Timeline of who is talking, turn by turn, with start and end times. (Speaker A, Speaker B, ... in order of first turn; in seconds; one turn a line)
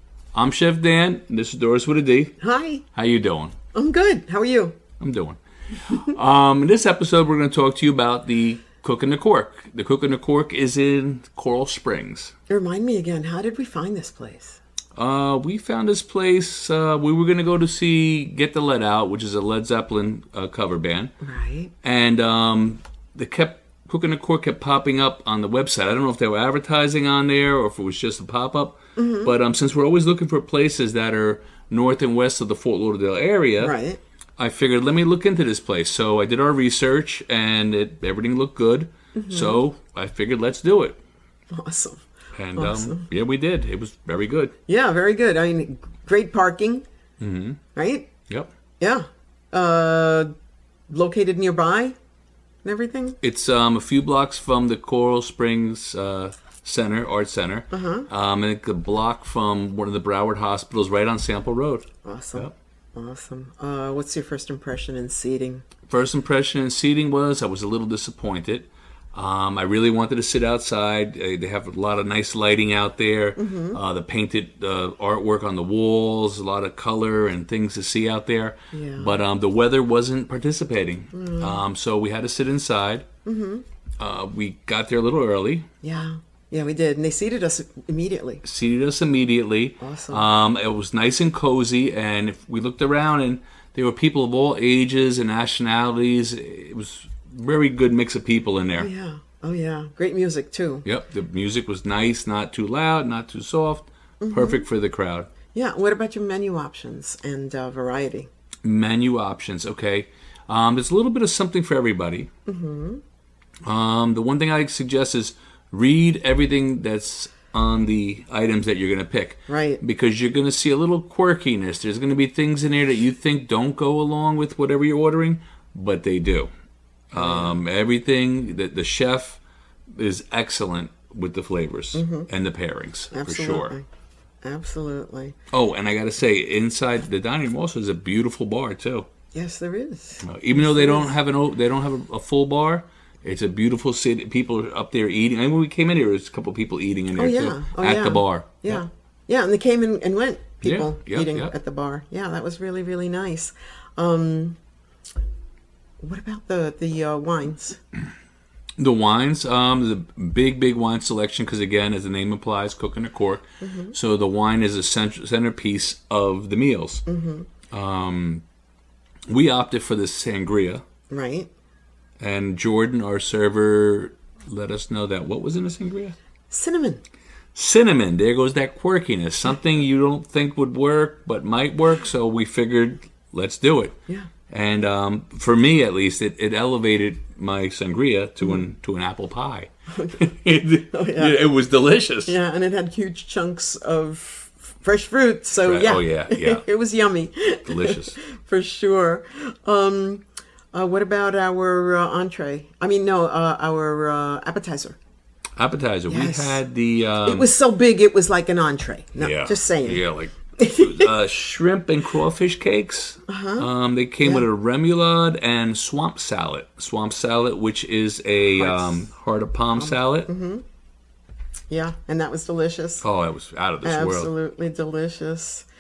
Speaker A: 0.3-2.4
Speaker B: 2.4-2.8
Speaker A: 2.9-3.5
Speaker B: 3.7-4.8
Speaker A: 5.0-12.3
Speaker B: 12.5-14.6
Speaker A: 14.9-21.1
Speaker B: 21.2-21.7
Speaker A: 21.8-33.8
Speaker B: 29.0-29.3
Speaker B: 33.6-34.0
Speaker A: 34.4-41.0
Speaker B: 39.1-39.6
Speaker B: 41.5-42.0
Speaker A: 42.3-44.5
Speaker B: 42.6-43.1
Speaker B: 44.7-46.9
Speaker A: 47.2-47.6
Speaker B: 47.8-48.1
Speaker B: 48.8-50.3
Speaker B: 50.9-52.0
Speaker B: 52.6-53.2
Speaker A: 53.2-62.5
Speaker B: 57.7-58.1
Speaker B: 62.0-65.6
Speaker A: 65.9-83.1
Speaker B: 73.4-73.8
Speaker B: 78.7-79.2
Speaker B: 81.1-81.6
Speaker B: 83.2-83.7
Speaker A: 84.0-85.7
Speaker B: 85.8-88.4
Speaker A: 88.4-98.9
Speaker B: 89.8-90.2
Speaker B: 98.8-100.8
Speaker A: 100.8-105.3
Speaker B: 104.2-104.7
Speaker B: 105.5-108.3
Speaker A: 108.6-112.3
Speaker B: 112.5-113.0
Speaker A: 113.6-126.5
Speaker B: 119.5-119.8
Speaker A: 127.1-129.4
Speaker B: 127.2-127.6
Speaker A: 129.9-133.8
Speaker B: 131.9-132.3
Speaker B: 133.1-133.8
Speaker B: 134.4-135.4
Speaker A: 135.5-139.1
Speaker B: 139.3-141.1
Speaker A: 140.2-148.8
Speaker B: 147.2-154.6
Speaker A: 150.6-151.5
Speaker B: 156.0-157.8
Speaker A: 158.8-167.0
Speaker B: 163.6-163.9
Speaker B: 167.1-167.5
Speaker A: 167.7-168.4
Speaker A: 169.3-170.8
Speaker B: 171.1-171.5
Speaker A: 172.2-176.2
Speaker B: 176.5-177.0
Speaker A: 177.6-183.9
Speaker A: 184.5-192.4
Speaker B: 189.9-190.2
Speaker B: 190.9-191.4
Speaker B: 192.3-205.0
Speaker A: 195.6-196.6
Speaker A: 197.7-198.2
Speaker A: 205.6-207.5
Speaker B: 206.1-206.6
Speaker B: 207.2-210.1
Speaker A: 209.2-220.3
Speaker B: 210.6-211.1
Speaker B: 213.3-213.7
Speaker B: 214.2-214.5
Speaker B: 218.6-219.1
Speaker B: 219.8-220.6
Speaker B: 221.7-223.1
Speaker A: 223.0-224.3
Speaker B: 223.8-225.7